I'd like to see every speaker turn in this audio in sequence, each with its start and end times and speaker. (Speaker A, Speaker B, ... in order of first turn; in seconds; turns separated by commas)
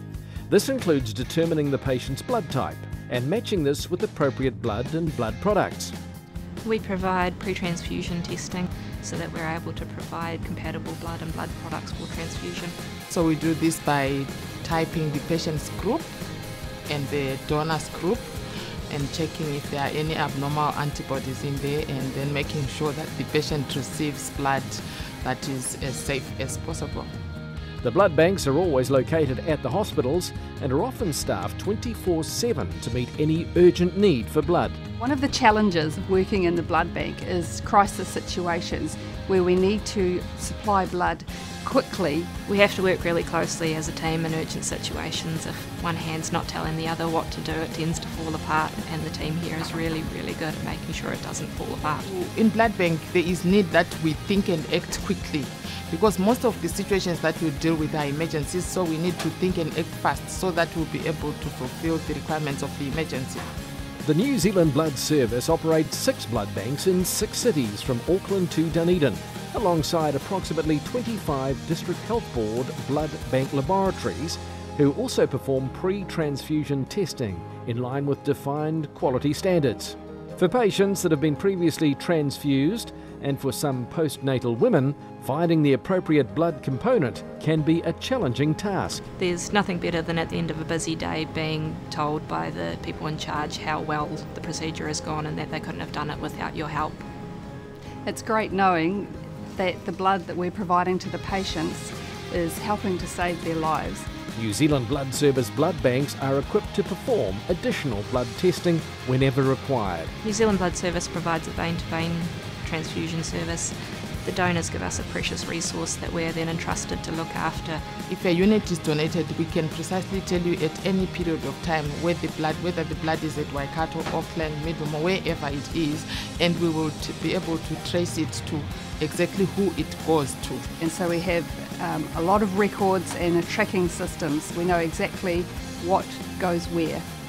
Speaker A: 0.5-5.9, Speaker B: 6.6-12.7, Speaker C: 13.1-16.1, Speaker C: 16.9-18.3, Speaker C: 18.9-27.1, Speaker A: 27.8-34.8, Speaker D: 35.0-42.3, Speaker B: 42.5-52.1, Speaker C: 52.0-63.4, Speaker A: 64.0-89.0, Speaker B: 89.2-97.0, Speaker D: 98.0-104.1, Speaker A: 104.3-110.1, Speaker B: 110.2-117.8, Speaker C: 118.1-130.7, Speaker D: 130.8-137.1